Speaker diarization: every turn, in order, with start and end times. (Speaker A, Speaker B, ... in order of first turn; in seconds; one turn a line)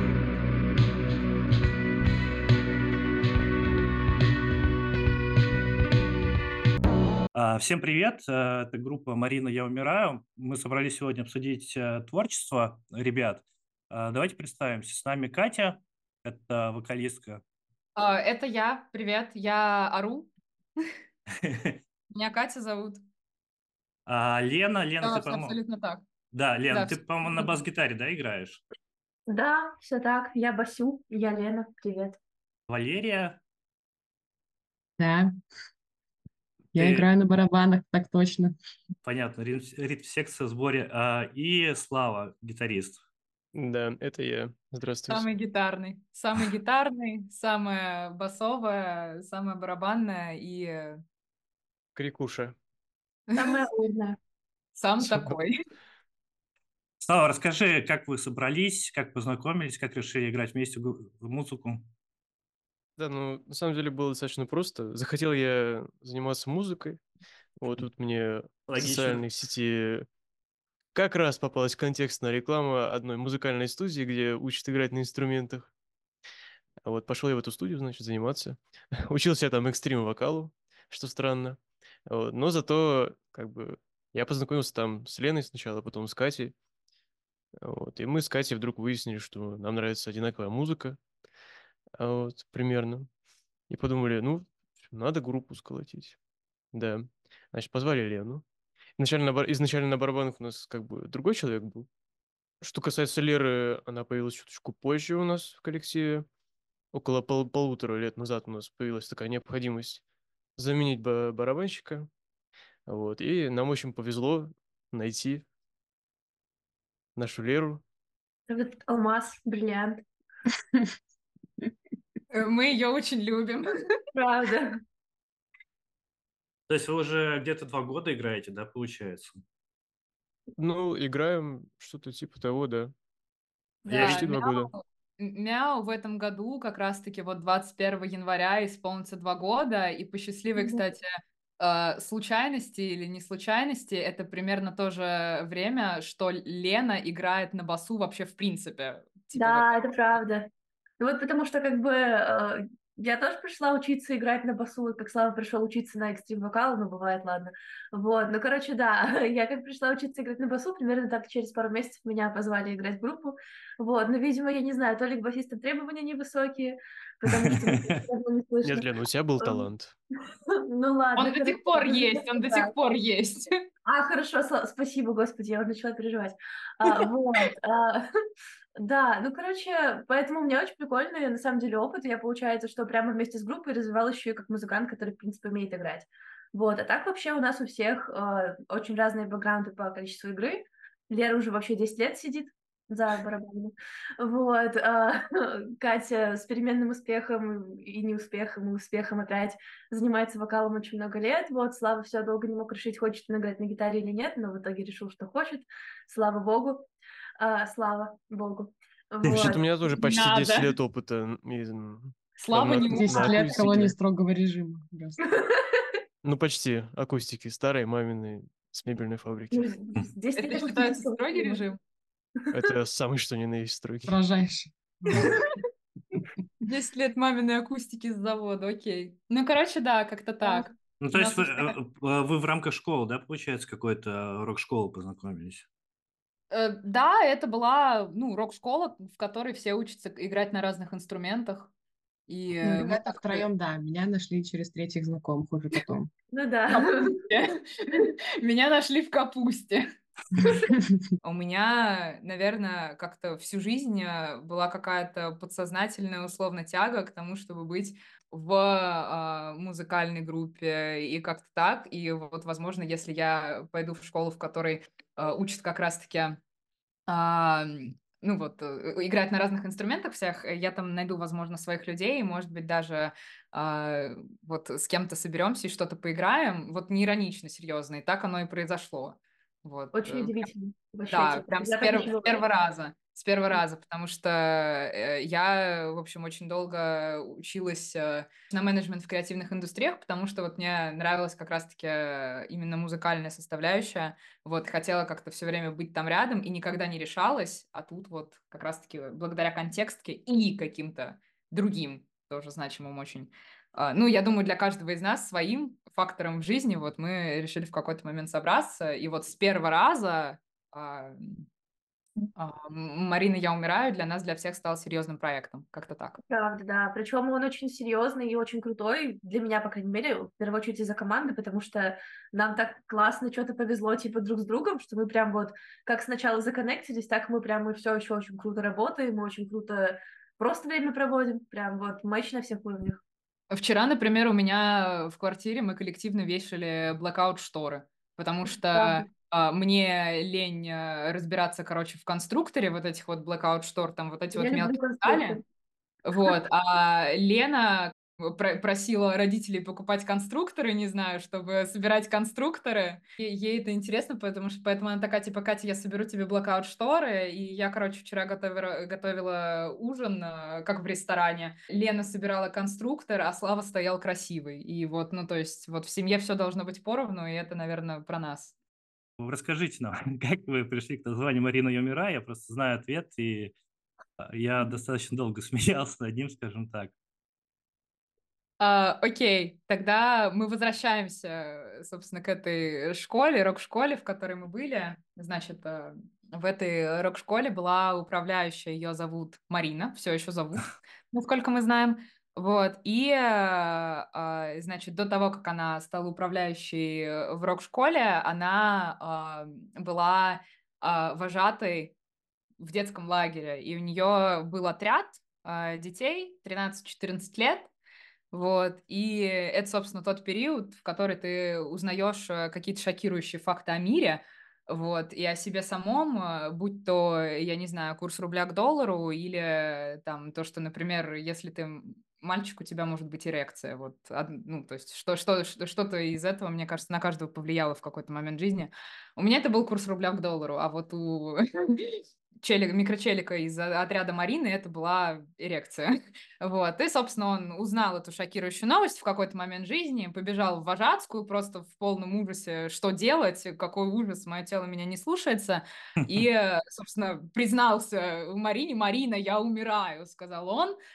Speaker A: 7.3-17.4
Speaker B: 18.0-20.3
Speaker A: 21.4-21.8
Speaker B: 22.1-23.0
Speaker A: 24.1-25.6
Speaker B: 25.0-26.0
Speaker A: 26.3-28.6
Speaker B: 26.7-27.5
Speaker C: 29.3-32.2
Speaker A: 32.7-33.4
Speaker D: 35.0-35.3
Speaker D: 36.7-38.5
Speaker A: 36.8-37.1
Speaker A: 39.0-43.0
Speaker E: 43.5-45.3
Speaker B: 45.1-51.0
Speaker E: 52.0-52.5
Speaker B: 53.3-53.6
Speaker C: 53.4-54.2
Speaker B: 54.8-55.5
Speaker E: 55.0-55.4
Speaker A: 57.0-61.9
Speaker E: 63.0-67.0
Speaker E: 67.6-70.1
Speaker A: 68.7-69.3
Speaker E: 70.9-75.7
Speaker E: 76.8-86.5
Speaker E: 87.6-91.0
Speaker E: 92.0-93.1
Speaker E: 93.7-96.2
Speaker E: 96.7-98.4
Speaker E: 99.0-101.9
Speaker E: 102.6-106.3
Speaker E: 106.9-110.0
Speaker E: 110.6-112.1
Speaker E: 112.9-115.5
Speaker E: 117.2-117.8
Speaker C: 118.5-120.0
Speaker B: 122.3-123.7
Speaker C: 124.1-124.8
Speaker A: 126.7-129.4
Speaker E: 130.6-132.9
Speaker A: 133.9-134.2
Speaker B: 133.9-141.1
Speaker E: 133.9-134.7
Speaker B: 141.6-149.8
Speaker C: 149.4-168.9
Speaker A: 167.3-167.9
Speaker E: 168.6-169.9
Speaker C: 169.4-169.7
Speaker C: 170.5-172.7
Speaker B: 171.2-173.5
Speaker C: 173.8-178.1
Speaker C: 178.8-206.9
Speaker C: 207.4-210.0
Speaker E: 209.3-213.9
Speaker B: 210.0-210.7
Speaker B: 212.4-213.7
Speaker D: 212.9-215.2
Speaker C: 215.3-215.8
Speaker E: 216.2-219.7
Speaker C: 219.5-221.6
Speaker B: 220.4-221.8
Speaker E: 222.5-224.2
Speaker D: 224.1-225.3
Speaker B: 225.2-225.5
Speaker B: 226.7-231.8
Speaker A: 231.0-235.7
Speaker B: 236.5-241.7
Speaker B: 242.3-243.5
Speaker D: 242.6-246.1
Speaker C: 246.3-247.1
Speaker B: 246.7-250.7
Speaker B: 251.2-266.4
Speaker B: 267.1-280.3
Speaker C: 279.9-282.4
Speaker B: 281.1-311.5
Speaker B: 312.4-316.2
Speaker C: 316.3-333.0
Speaker B: 333.5-345.4
Speaker C: 338.7-339.1
Speaker C: 344.4-345.4
Speaker B: 346.1-368.6
Speaker A: 369.2-373.5
Speaker A: 374.2-376.9
Speaker B: 378.6-401.9
Speaker B: 402.6-407.7
Speaker B: 408.3-450.8